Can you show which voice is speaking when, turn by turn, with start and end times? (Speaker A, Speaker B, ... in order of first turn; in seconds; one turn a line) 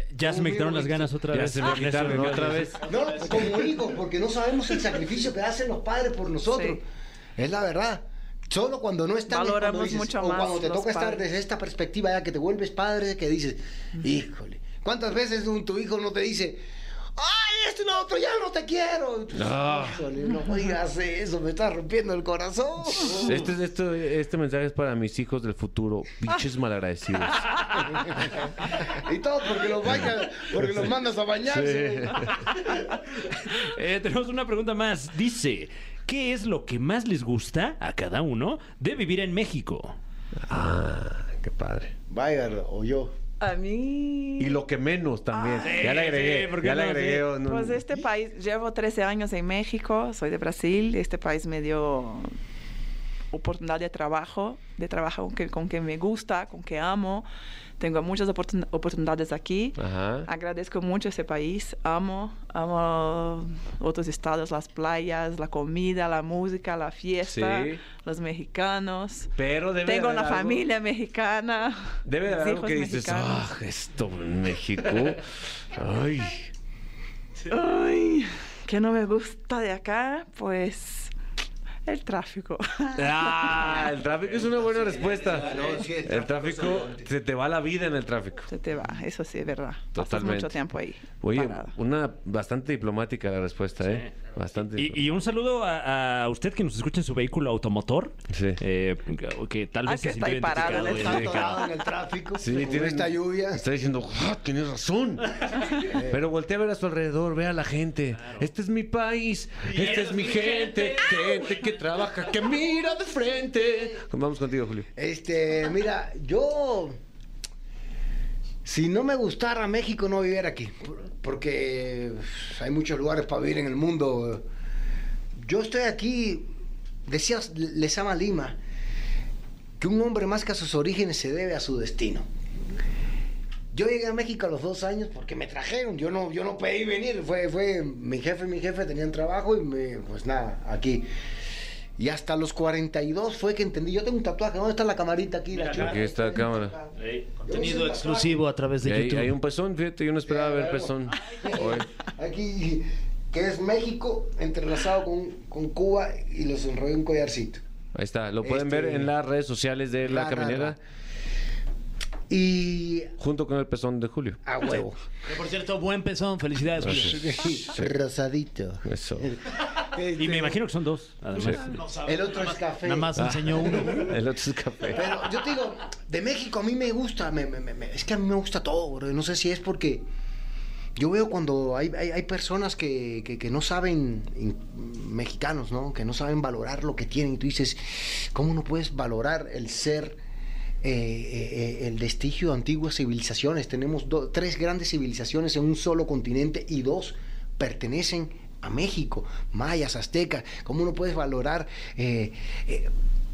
Speaker A: 0.1-2.8
Speaker B: 0.2-1.2
Speaker C: 1.3-2.9
Speaker B: 2.8-6.8
Speaker D: 6.5-6.8
Speaker B: 7.4-16.6
Speaker D: 9.3-11.2
Speaker B: 17.2-23.4
Speaker C: 19.3-20.1
Speaker C: 23.0-28.2
Speaker B: 27.7-32.3
Speaker C: 31.5-32.3
Speaker A: 33.5-40.0
Speaker C: 40.5-41.9
Speaker B: 42.1-43.1
Speaker D: 43.4-44.6
Speaker C: 44.4-47.8
Speaker D: 45.3-46.0
Speaker A: 45.6-47.2
Speaker D: 47.4-52.3
Speaker D: 53.3-57.3
Speaker D: 57.8-69.3
Speaker C: 59.8-60.3
Speaker C: 67.2-67.8
Speaker C: 69.3-70.6
Speaker D: 69.8-73.5
Speaker C: 72.0-76.5
Speaker D: 77.5-81.1
Speaker D: 81.8-83.8
Speaker C: 83.0-88.5
Speaker B: 85.3-87.1
Speaker D: 88.5-91.7
Speaker C: 89.9-90.5
Speaker C: 91.2-95.0
Speaker A: 93.8-94.1
Speaker A: 94.7-101.5
Speaker C: 98.3-98.6
Speaker D: 99.8-101.9
Speaker B: 100.6-103.6
Speaker C: 100.7-101.6
Speaker C: 102.3-114.9
Speaker B: 105.8-106.2
Speaker A: 109.9-110.2
Speaker B: 115.0-117.0
Speaker B: 118.6-124.4
Speaker B: 125.3-126.5
Speaker B: 127.1-128.6
Speaker B: 129.8-132.3
Speaker B: 133.7-141.0
Speaker B: 142.0-146.9
Speaker A: 145.6-146.0
Speaker C: 145.7-146.8
Speaker A: 147.0-147.2
Speaker E: 147.4-149.3
Speaker B: 147.5-148.4
Speaker C: 148.8-151.9
Speaker B: 150.2-157.6
Speaker C: 157.9-160.8
Speaker B: 158.4-159.1
Speaker B: 160.0-160.8
Speaker B: 162.3-163.1
Speaker C: 163.2-164.8
Speaker B: 164.4-165.0
Speaker E: 165.3-167.2
Speaker C: 166.8-167.9
Speaker B: 166.9-170.6
Speaker C: 168.8-169.3
Speaker A: 170.2-171.8
Speaker E: 171.4-174.1
Speaker B: 172.0-174.1
Speaker C: 173.2-175.1
Speaker B: 174.9-180.0
Speaker B: 181.0-190.2
Speaker B: 190.8-202.9